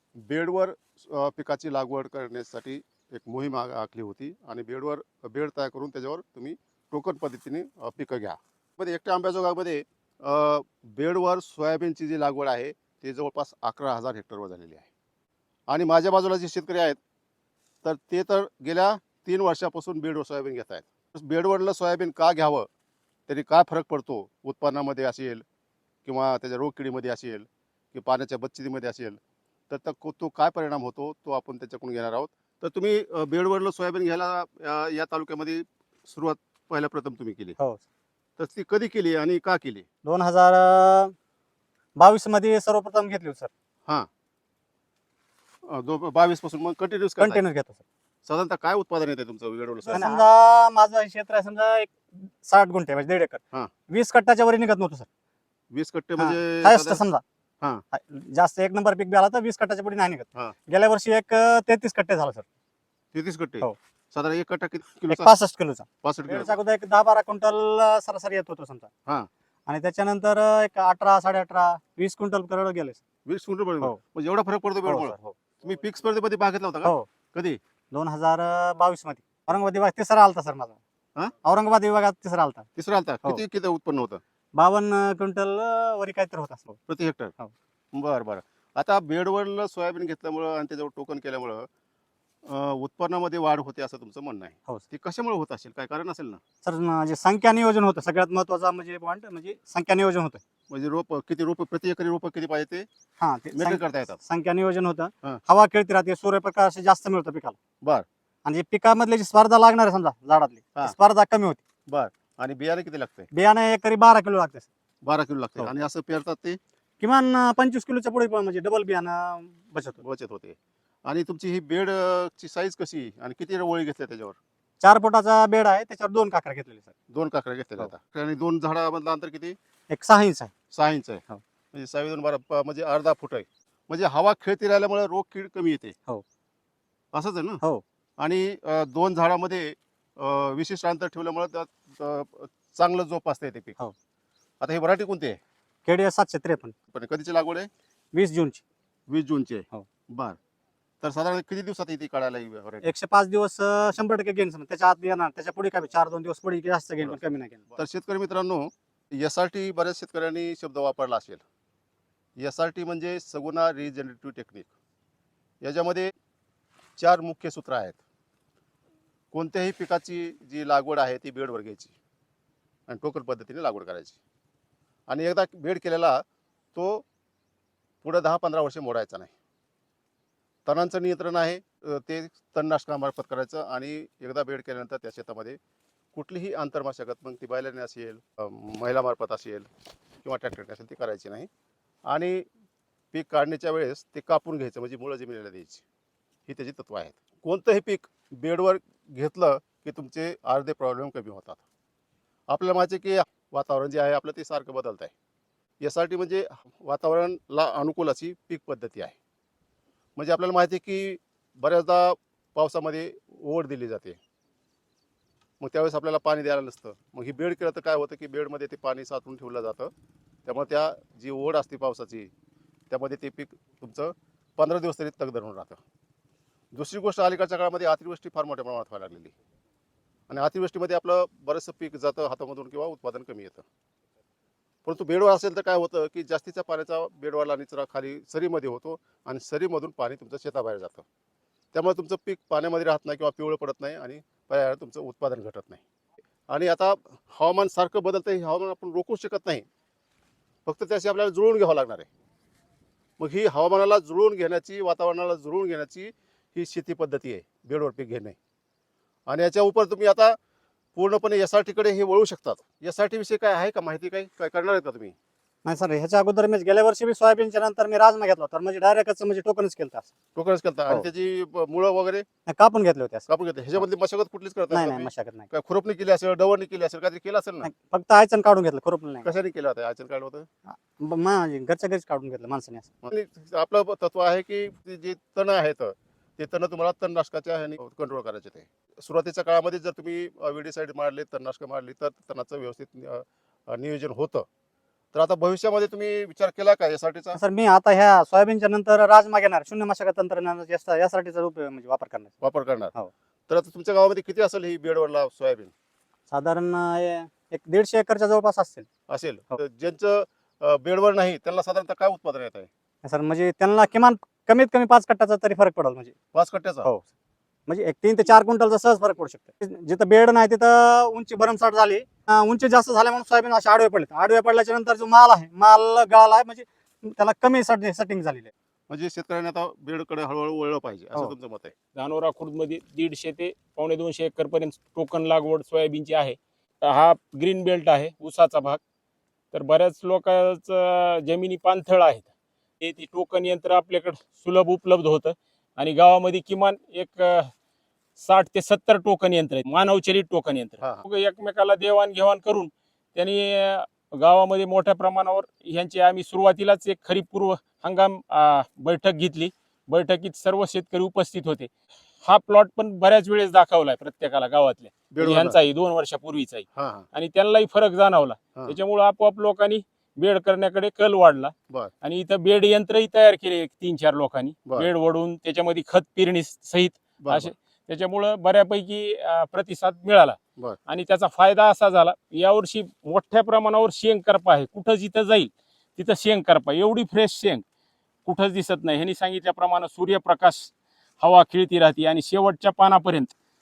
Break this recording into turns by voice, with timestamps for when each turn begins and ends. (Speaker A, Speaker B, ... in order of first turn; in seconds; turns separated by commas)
Speaker A: 0.2-14.9, Speaker A: 15.7-17.0, Speaker A: 17.8-22.7, Speaker A: 23.3-25.4, Speaker A: 26.1-29.2, Speaker A: 29.7-37.6, Speaker A: 38.4-39.9, Speaker B: 40.0-41.1, Speaker B: 42.0-43.5, Speaker A: 45.6-47.4, Speaker B: 47.2-47.8, Speaker A: 48.2-50.2, Speaker B: 49.9-55.1, Speaker A: 55.7-57.0, Speaker B: 56.2-57.2, Speaker B: 57.9-62.5, Speaker A: 63.1-65.3, Speaker B: 65.1-68.9, Speaker A: 66.0-66.5, Speaker B: 69.7-73.0, Speaker A: 73.3-77.6, Speaker B: 74.8-75.4, Speaker B: 77.9-80.8, Speaker B: 81.4-82.7, Speaker A: 82.8-84.2, Speaker B: 84.5-86.8, Speaker A: 86.9-87.3, Speaker A: 87.9-91.7, Speaker A: 92.5-96.4, Speaker B: 96.6-100.4, Speaker A: 100.7-102.9, Speaker B: 103.2-107.6, Speaker A: 103.5-104.2, Speaker B: 108.5-111.6, Speaker A: 111.9-113.3, Speaker B: 113.3-114.7, Speaker A: 115.0-116.6, Speaker B: 117.0-120.0, Speaker A: 120.0-124.4, Speaker B: 124.8-126.9, Speaker A: 127.1-129.6, Speaker B: 129.9-130.5, Speaker A: 130.7-136.0, Speaker A: 137.1-137.6, Speaker A: 138.2-143.8, Speaker A: 144.6-145.4, Speaker B: 145.9-146.7, Speaker A: 146.9-147.7, Speaker B: 148.1-148.6, Speaker A: 149.1-150.4, Speaker A: 151.0-152.9, Speaker B: 152.8-157.7, Speaker A: 157.7-161.4, Speaker A: 162.4-164.8, Speaker A: 165.6-166.1, Speaker A: 167.0-168.0, Speaker A: 169.3-172.0, Speaker A: 172.9-174.2, Speaker A: 175.1-176.2, Speaker A: 176.8-177.1, Speaker A: 178.0-179.3, Speaker A: 180.7-185.6, Speaker A: 186.1-189.7, Speaker A: 190.2-191.5, Speaker A: 192.1-192.5, Speaker A: 193.1-195.8, Speaker A: 196.5-201.6, Speaker A: 202.5-205.1, Speaker A: 205.8-209.2, Speaker A: 210.2-214.2, Speaker A: 215.6-219.9, Speaker A: 220.5-222.3, Speaker A: 222.9-225.8, Speaker A: 226.7-229.3, Speaker A: 230.3-233.7, Speaker A: 234.8-241.1, Speaker A: 241.7-245.8, Speaker A: 246.5-249.7, Speaker A: 250.7-252.1, Speaker A: 253.2-258.4, Speaker A: 259.3-260.4, Speaker A: 260.9-265.1, Speaker B: 265.6-270.1, Speaker A: 270.4-272.2, Speaker B: 272.5-273.3, Speaker A: 273.3-277.7, Speaker B: 274.7-275.5, Speaker B: 277.6-279.3, Speaker A: 279.2-280.5, Speaker B: 280.7-282.9, Speaker A: 283.0-294.5, Speaker A: 295.1-297.4, Speaker B: 297.4-302.4, Speaker A: 302.4-302.9, Speaker A: 303.5-305.7, Speaker B: 306.3-308.9, Speaker A: 309.1-312.7, Speaker B: 313.0-316.1, Speaker A: 316.3-316.9, Speaker B: 317.7-328.5, Speaker A: 328.9-331.7, Speaker C: 331.9-338.8, Speaker C: 339.5-342.3, Speaker C: 342.8-347.5, Speaker C: 348.2-361.7, Speaker A: 350.8-351.1, Speaker C: 362.2-387.6, Speaker A: 365.1-365.6, Speaker A: 366.8-367.1, Speaker A: 377.2-377.5, Speaker C: 388.3-393.3